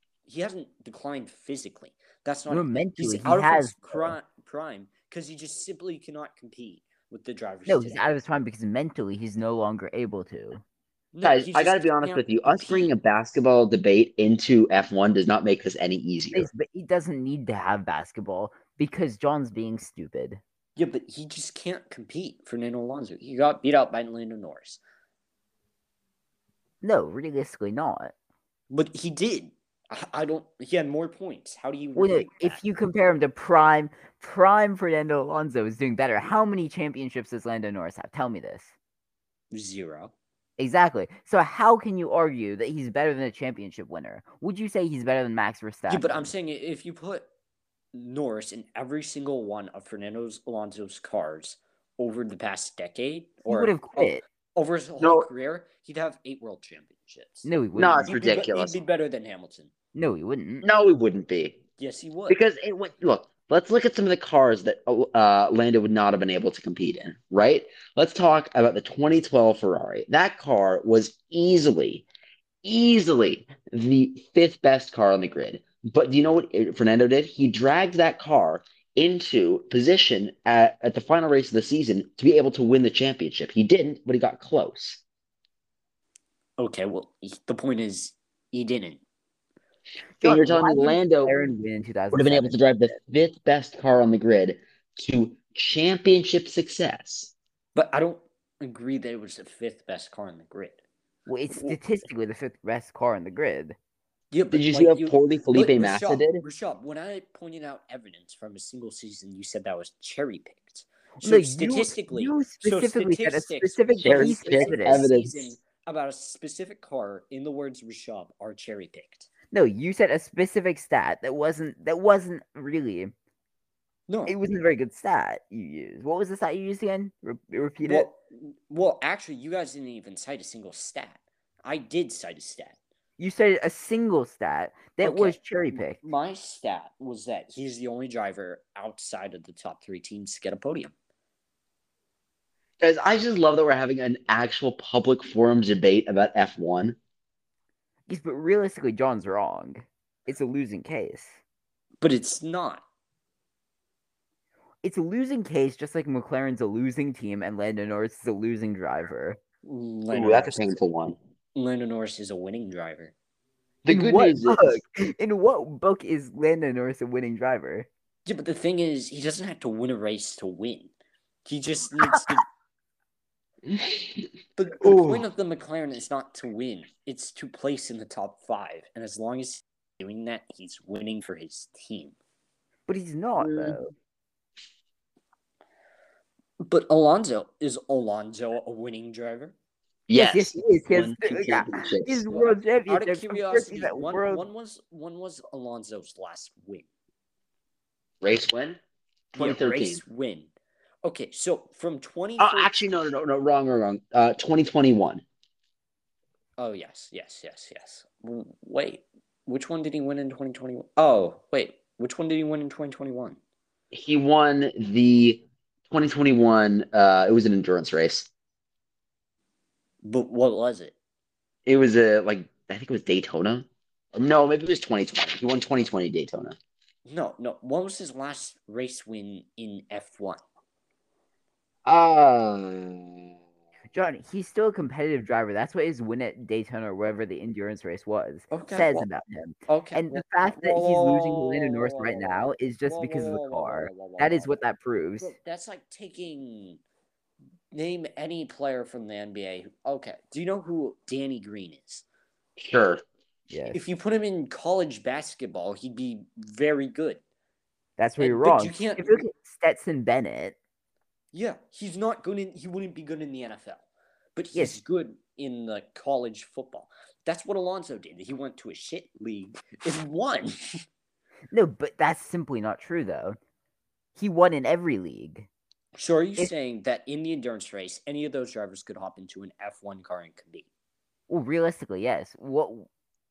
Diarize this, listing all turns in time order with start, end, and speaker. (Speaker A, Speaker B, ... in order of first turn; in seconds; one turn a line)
Speaker A: 0.3-8.1
Speaker B: 2.5-4.2
Speaker B: 7.7-10.6
Speaker A: 11.1-12.9
Speaker C: 11.2-16.5
Speaker B: 16.3-20.4
Speaker A: 20.8-24.8
Speaker B: 26.8-28.1
Speaker A: 28.7-32.6
Speaker B: 31.9-38.7
Speaker A: 39.5-40.1
Speaker B: 40.6-46.3
Speaker A: 45.9-47.3
Speaker A: 47.9-57.5
Speaker B: 53.5-54.2
Speaker C: 55.0-55.3
Speaker B: 57.4-58.2
Speaker C: 57.7-58.8
Speaker A: 58.0-59.7
Speaker B: 59.9-60.6
Speaker C: 60.6-61.6
Speaker A: 61.8-62.4
Speaker C: 62.3-72.0
Speaker C: 72.6-85.0
Speaker A: 86.6-89.0
Speaker B: 90.2-92.6
Speaker C: 90.2-91.4
Speaker C: 92.1-97.3
Speaker A: 97.7-100.8
Speaker B: 101.3-103.8
Speaker A: 101.5-101.8
Speaker A: 104.3-119.3
Speaker C: 104.5-106.4
Speaker B: 111.2-115.1
Speaker C: 114.0-115.5
Speaker B: 119.5-123.1
Speaker A: 124.1-124.3
Speaker B: 124.3-128.1
Speaker A: 127.8-132.8
Speaker B: 133.2-136.0
Speaker A: 135.0-140.9
Speaker C: 142.8-147.0
Speaker B: 148.1-151.4
Speaker A: 152.0-152.8
Speaker B: 154.8-159.4
Speaker A: 159.6-160.7
Speaker C: 160.1-161.2
Speaker A: 161.5-163.1
Speaker C: 163.8-164.8
Speaker B: 163.9-167.9
Speaker A: 168.2-170.9
Speaker A: 171.4-172.4
Speaker C: 173.7-174.1
Speaker A: 174.6-182.2
Speaker C: 174.8-175.2
Speaker B: 182.9-183.9
Speaker C: 183.4-183.8
Speaker A: 186.6-189.5
Speaker C: 190.1-192.3
Speaker B: 190.1-194.4
Speaker A: 192.8-196.9
Speaker C: 198.2-198.8
Speaker C: 199.3-200.0
Speaker A: 199.4-200.5
Speaker A: 201.0-202.8
Speaker C: 202.4-205.2
Speaker A: 206.6-213.4
Speaker C: 213.9-218.3
Speaker A: 220.0-220.9
Speaker C: 221.7-226.6
Speaker A: 227.0-230.4
Speaker C: 231.8-233.3
Speaker B: 233.9-245.3
Speaker A: 238.5-239.1
Speaker A: 239.7-244.5
Speaker A: 245.2-246.8
Speaker A: 247.7-252.0
Speaker C: 252.6-253.0
Speaker B: 253.5-253.8
Speaker A: 253.7-257.2
Speaker B: 258.0-260.6
Speaker A: 258.2-259.2
Speaker A: 261.3-270.8
Speaker B: 271.5-273.4
Speaker B: 274.1-275.5
Speaker A: 275.9-280.7
Speaker B: 281.3-282.9